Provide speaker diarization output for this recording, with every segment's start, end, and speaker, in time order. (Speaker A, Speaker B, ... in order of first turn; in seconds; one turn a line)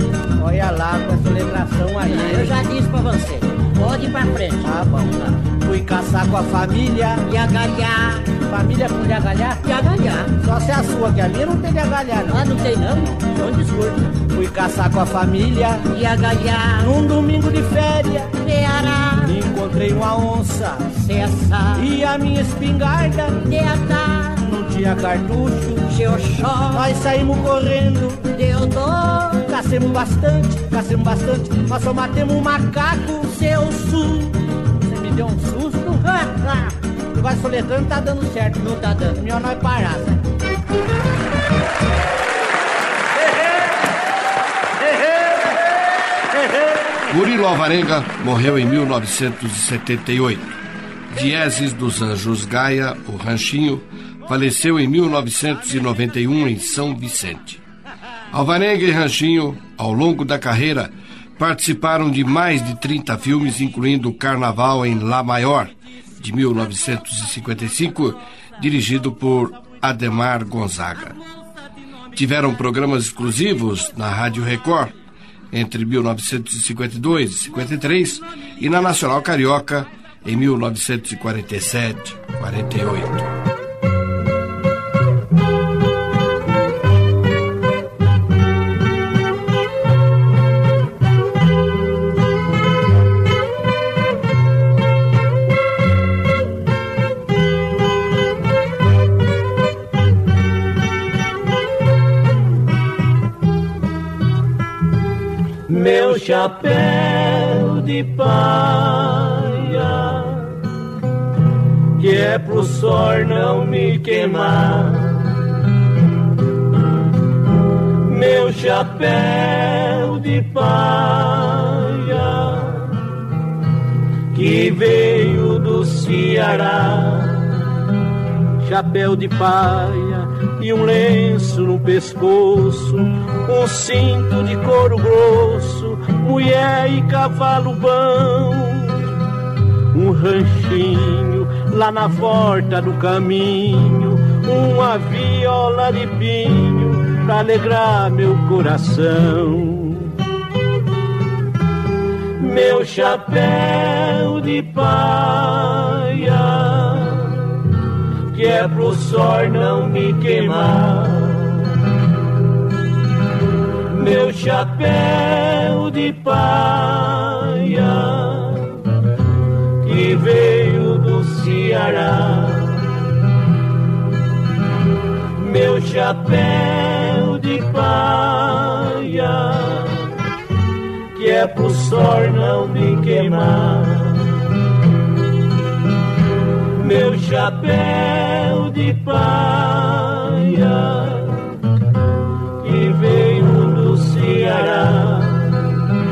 Speaker A: 0.4-2.6
Speaker B: 2.0-5.3
Speaker A: 4.6-7.2
Speaker B: 7.2-8.4
Speaker A: 8.4-9.6
Speaker B: 9.6-10.3
Speaker A: 10.4-12.4
Speaker B: 12.3-14.0
Speaker A: 14.2-15.8
Speaker B: 15.8-17.0
Speaker A: 16.8-18.3
Speaker B: 18.3-19.4
Speaker A: 19.2-20.9
Speaker B: 20.9-21.9
Speaker A: 21.8-23.4
Speaker B: 23.4-24.5
Speaker A: 24.4-25.8
Speaker B: 25.8-27.0
Speaker A: 26.7-28.2
Speaker B: 28.2-29.4
Speaker A: 29.4-36.6
Speaker A: 37.1-40.2
Speaker C: 47.1-50.6
Speaker C: 51.1-57.6
Speaker C: 58.3-71.2
Speaker C: 72.1-74.9
Speaker C: 75.5-83.3
Speaker D: 105.7-110.6
Speaker D: 112.0-115.4
Speaker D: 118.0-123.0
Speaker D: 124.3-127.6
Speaker D: 128.6-139.1
Speaker D: 139.9-150.1
Speaker D: 152.4-157.5
Speaker D: 158.3-161.7
Speaker D: 163.9-168.8
Speaker D: 169.8-172.9
Speaker D: 175.4-180.1
Speaker D: 181.1-184.3
Speaker D: 186.8-191.4
Speaker D: 192.6-195.8